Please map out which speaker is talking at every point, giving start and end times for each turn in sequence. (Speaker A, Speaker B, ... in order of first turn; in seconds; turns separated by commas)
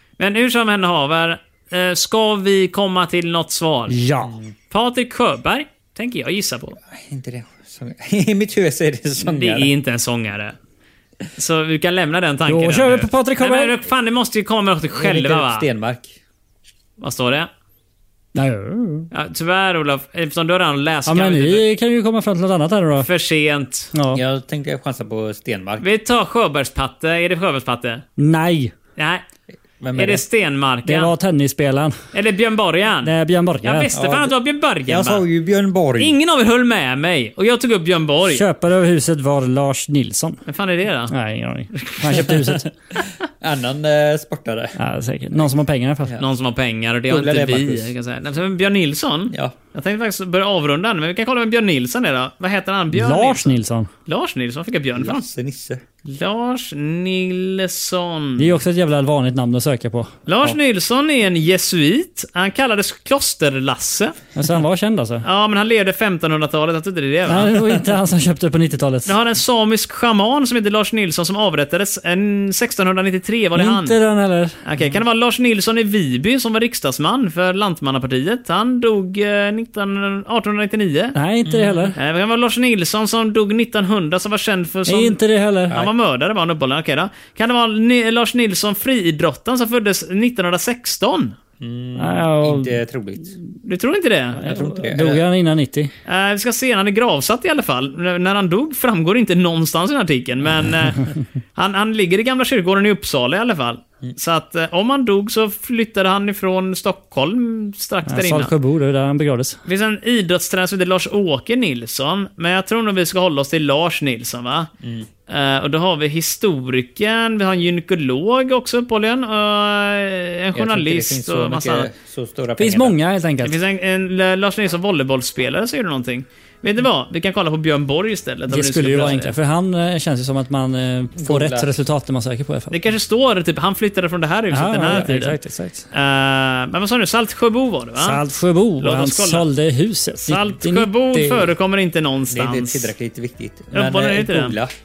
Speaker A: 0.2-4.0, Speaker B: 3.9-4.4, Speaker C: 4.2-4.5, Speaker A: 4.7-6.8, Speaker C: 6.8-9.7, Speaker A: 9.2-10.6, Speaker A: 11.3-15.7, Speaker B: 12.5-13.8, Speaker C: 14.9-16.2, Speaker A: 17.0-17.5, Speaker B: 18.4-19.1, Speaker A: 19.1-21.6, Speaker B: 21.1-23.1, Speaker A: 23.0-23.9, Speaker B: 23.9-24.2, Speaker C: 24.1-25.9, Speaker A: 25.8-28.0, Speaker B: 28.2-28.7, Speaker A: 29.0-29.2, Speaker C: 29.8-30.2, Speaker A: 29.9-31.1, Speaker B: 30.9-32.0, Speaker A: 32.1-35.2, Speaker B: 33.0-33.9, Speaker C: 33.9-34.4, Speaker C: 34.9-36.2, Speaker A: 36.0-38.5, Speaker B: 38.3-40.4, Speaker A: 40.5-41.1, Speaker B: 41.1-42.7, Speaker A: 41.7-42.4, Speaker C: 43.4-44.8, Speaker B: 44.8-46.1, Speaker A: 46.2-55.2, Speaker C: 47.1-47.9, Speaker B: 52.9-53.9, Speaker C: 55.0-55.8, Speaker A: 56.0-58.6, Speaker B: 58.4-60.1, Speaker A: 60.3-64.2, Speaker B: 64.3-65.2, Speaker A: 65.2-67.6, Speaker B: 67.3-69.1, Speaker A: 69.1-74.0, Speaker B: 73.6-74.6, Speaker A: 74.6-91.4, Speaker B: 81.2-82.0, Speaker B: 84.9-85.8, Speaker C: 91.6-93.4, Speaker B: 92.0-92.8, Speaker A: 93.7-94.5, Speaker B: 94.4-95.9, Speaker C: 94.4-95.2, Speaker A: 96.1-108.5, Speaker B: 108.1-109.6, Speaker A: 109.7-114.7, Speaker C: 114.8-115.1, Speaker A: 115.3-121.9, Speaker C: 120.5-123.0, Speaker B: 122.6-123.5, Speaker A: 123.4-129.3, Speaker B: 128.5-132.8, Speaker C: 131.2-131.8, Speaker A: 132.7-135.4, Speaker B: 134.5-135.8, Speaker A: 135.9-138.2, Speaker B: 138.0-141.5, Speaker A: 138.8-139.4, Speaker A: 140.3-142.9, Speaker C: 142.3-144.7, Speaker A: 143.7-144.6